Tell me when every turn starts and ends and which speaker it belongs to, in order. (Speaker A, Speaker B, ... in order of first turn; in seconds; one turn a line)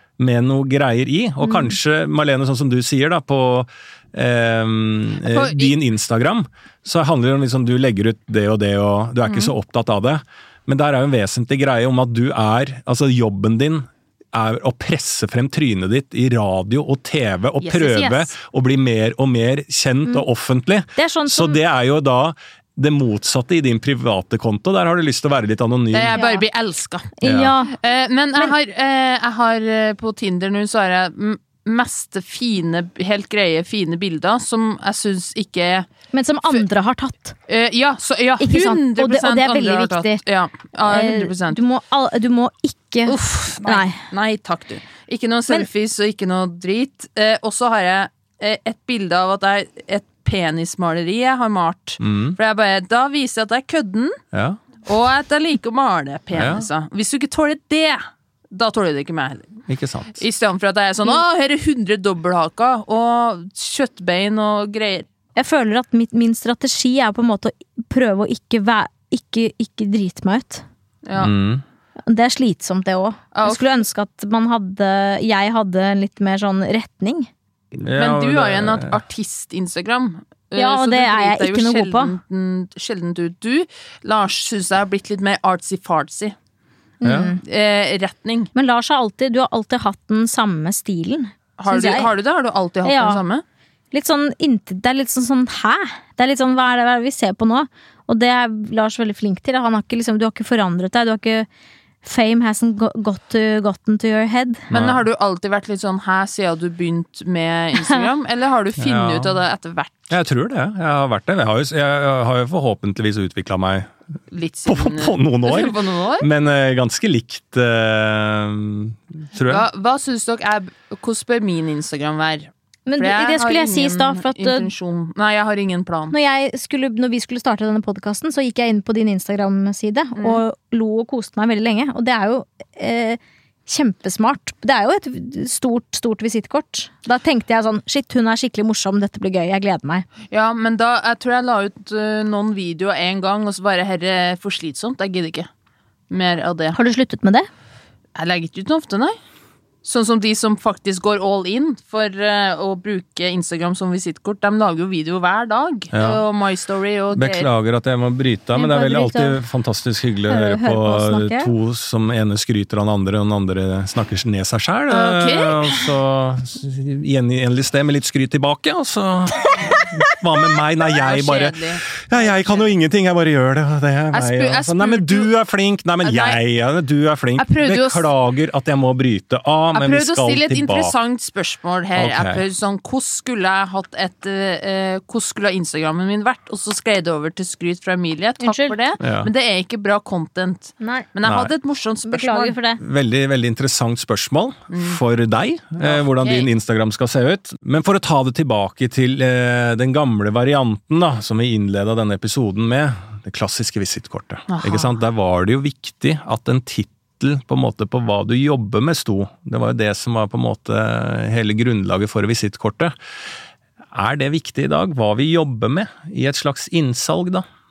Speaker A: 0.2-26.2
Speaker B: 1.4-1.7
Speaker C: 5.2-5.8
Speaker C: 17.6-18.3
Speaker B: 20.9-21.6
Speaker C: 25.9-27.1
Speaker B: 26.1-26.4
Speaker B: 27.2-27.8
Speaker A: 27.2-27.5
Speaker C: 27.7-35.9
Speaker B: 36.1-37.3
Speaker C: 37.5-41.6
Speaker B: 38.4-40.2
Speaker B: 40.9-44.0
Speaker C: 43.1-54.2
Speaker A: 52.0-52.4
Speaker A: 54.3-54.6
Speaker C: 54.8-59.6
Speaker A: 56.3-56.7
Speaker A: 59.7-60.2
Speaker C: 60.2-65.1
Speaker B: 65.3-70.6
Speaker C: 71.0-71.3
Speaker A: 71.2-71.6
Speaker B: 72.1-77.3
Speaker C: 73.3-73.7
Speaker A: 77.8-79.0
Speaker C: 78.0-86.3
Speaker B: 80.5-82.2
Speaker B: 87.0-87.4
Speaker A: 87.0-87.3
Speaker C: 87.4-88.5
Speaker B: 88.5-92.1
Speaker C: 91.6-93.4
Speaker B: 92.8-93.2
Speaker B: 93.9-101.5
Speaker B: 102.0-104.7
Speaker A: 104.7-105.0
Speaker C: 104.7-110.1
Speaker A: 108.8-109.4
Speaker A: 110.1-113.9
Speaker C: 114.3-116.3
Speaker A: 114.7-119.7
Speaker C: 119.5-126.1
Speaker B: 122.9-124.7
Speaker B: 126.1-140.1
Speaker C: 130.2-130.4
Speaker C: 140.3-145.5
Speaker C: 146.1-146.8
Speaker B: 146.7-147.5
Speaker C: 148.2-149.1
Speaker C: 149.8-157.5
Speaker A: 155.9-156.2
Speaker A: 157.1-180.9
Speaker B: 158.5-159.4
Speaker B: 160.3-161.5
Speaker C: 164.9-165.9
Speaker C: 170.9-172.7
Speaker C: 174.1-175.3
Speaker C: 176.0-176.4
Speaker C: 177.4-178.1
Speaker C: 179.7-192.6
Speaker A: 181.9-182.4
Speaker B: 188.4-188.8
Speaker A: 189.0-189.3
Speaker B: 190.8-191.1
Speaker A: 191.2-191.5
Speaker B: 192.1-192.8
Speaker A: 192.8-212.9
Speaker C: 194.7-195.0
Speaker C: 195.8-196.5
Speaker C: 204.5-204.9
Speaker A: 213.9-217.4